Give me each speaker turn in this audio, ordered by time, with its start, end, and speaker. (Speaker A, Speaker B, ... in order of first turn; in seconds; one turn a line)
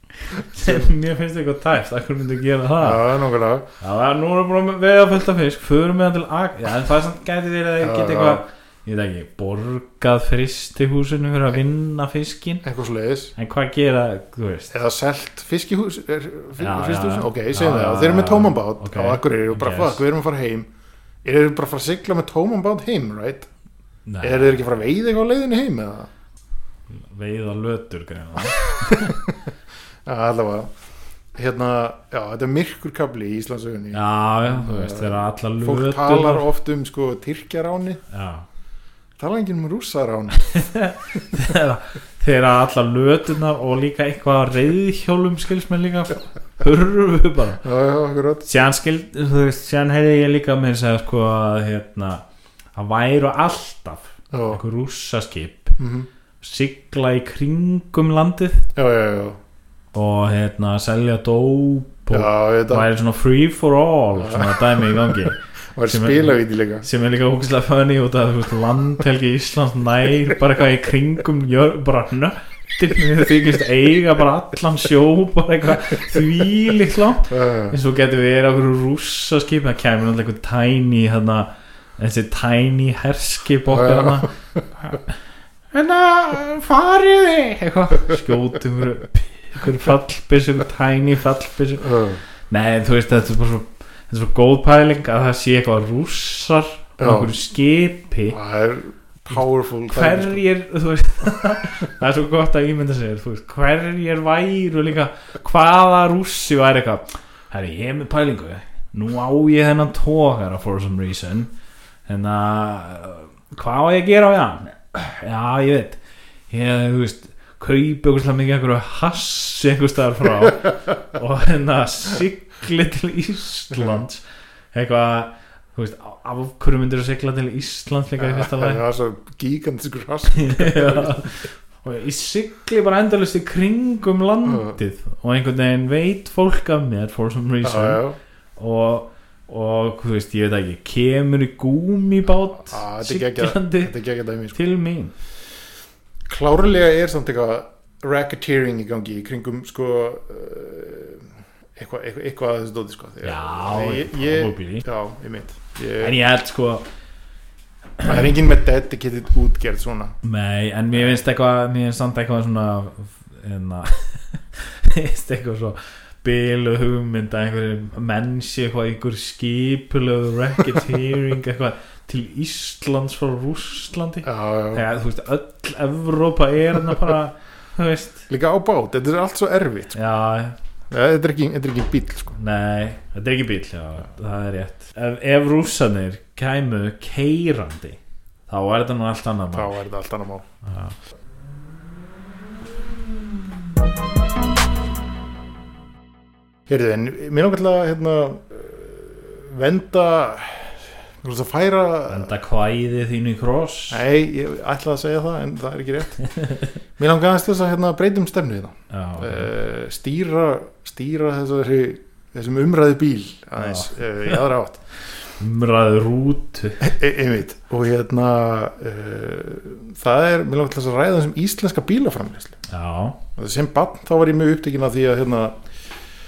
Speaker A: 0.2-3.2
Speaker B: 0.5-0.9
Speaker B: 2.8-3.7
Speaker A: 3.8-12.6
Speaker B: 7.8-8.4
Speaker B: 12.6-13.3
Speaker A: 13.4-14.7
Speaker B: 14.7-20.7
Speaker A: 16.6-20.0
Speaker B: 21.2-23.5
Speaker A: 24.1-24.6
Speaker B: 24.2-26.1
Speaker A: 26.9-29.2
Speaker B: 28.8-29.3
Speaker B: 30.1-30.7
Speaker B: 31.4-38.0
Speaker A: 33.9-36.5
Speaker A: 38.1-38.5
Speaker B: 39.2-40.4
Speaker A: 40.4-47.6
Speaker B: 47.6-48.5
Speaker A: 48.5-52.2
Speaker A: 52.8-55.8
Speaker B: 54.3-54.6
Speaker B: 55.8-56.1
Speaker A: 56.4-58.7
Speaker B: 58.8-59.4
Speaker A: 59.9-85.1
Speaker B: 62.1-62.9
Speaker B: 64.2-66.9
Speaker B: 77.3-77.8
Speaker B: 83.7-84.6
Speaker A: 85.7-98.4
Speaker B: 91.8-92.2
Speaker B: 97.0-97.3
Speaker B: 98.3-100.4
Speaker A: 99.9-111.5
Speaker A: 112.1-128.8
Speaker B: 128.2-131.3
Speaker A: 130.4-138.0
Speaker B: 134.5-134.8
Speaker B: 137.6-138.2
Speaker A: 138.6-143.9
Speaker B: 142.7-144.6
Speaker A: 144.5-145.1
Speaker B: 146.3-156.2
Speaker A: 153.2-154.8
Speaker A: 156.0-156.9
Speaker B: 158.0-160.2
Speaker A: 160.2-178.2
Speaker B: 174.2-174.8
Speaker B: 178.3-180.0
Speaker A: 179.9-180.6
Speaker B: 180.9-182.4
Speaker A: 182.4-189.8
Speaker B: 189.5-190.5
Speaker A: 190.6-190.9
Speaker B: 196.7-202.3
Speaker A: 202.1-204.0
Speaker B: 203.9-206.2
Speaker A: 206.3-206.7
Speaker B: 207.0-214.8
Speaker A: 208.9-209.5
Speaker A: 213.6-214.3
Speaker A: 215.4-216.9
Speaker B: 216.8-222.6
Speaker A: 222.7-223.2
Speaker B: 223.4-225.6